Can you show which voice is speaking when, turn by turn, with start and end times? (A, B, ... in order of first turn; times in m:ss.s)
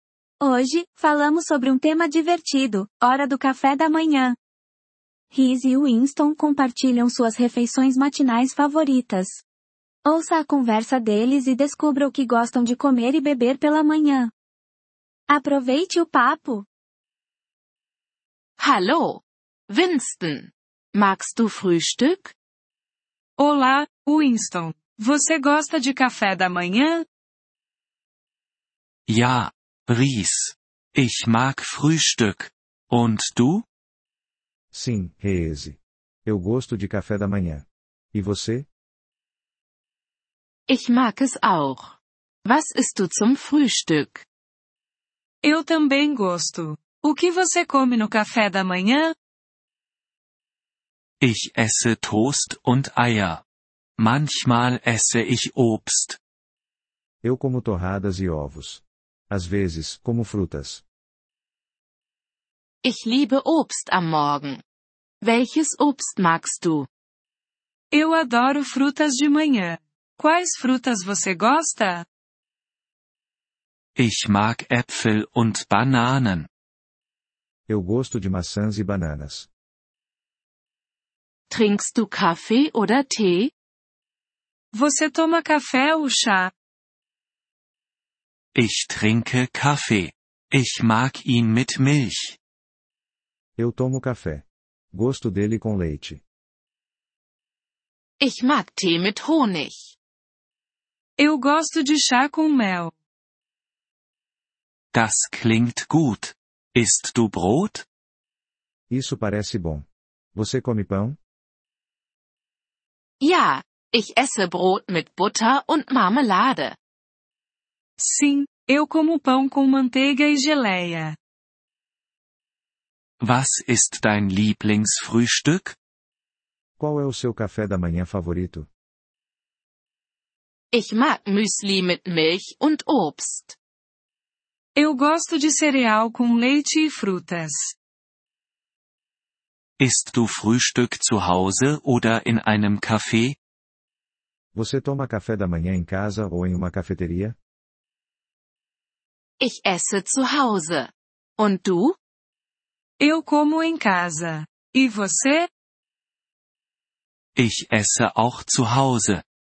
0:00.4-0:04.4 A
0:05.3-0:09.4 A
0:10.0-0:14.3 A
0:15.3-0:16.7 A
0:18.6-0:22.3 B
0:23.4-0:27.0 C
0:29.1-0:33.6 D
0:34.7-0:38.7 E
0:40.7-0:44.2 B
0:45.4-0:49.1 C
0:51.2-0:53.4 D
0:54.0-0:56.2 D
0:57.2-1:00.8 E
1:02.8-1:04.6 B
1:05.2-1:06.9 B
1:07.9-1:12.0 C
1:14.0-1:16.5 D
1:17.7-1:19.5 E
1:21.5-1:23.5 B
1:24.7-1:26.5 C
1:28.5-1:32.4 D
1:33.6-1:36.2 E
1:38.2-1:39.9 B
1:41.2-1:42.9 C
1:44.9-1:47.8 D
1:48.9-1:51.2 E
1:53.2-1:56.8 B
1:58.0-2:01.2 C
2:03.2-2:05.8 D
2:06.8-2:08.7 E
2:10.7-2:13.6 B
2:14.8-2:17.6 C
2:19.8-2:23.4 D
2:24.5-2:27.4 E
2:29.4-2:32.0 B
2:33.0-2:35.5 C
2:37.4-2:39.2 D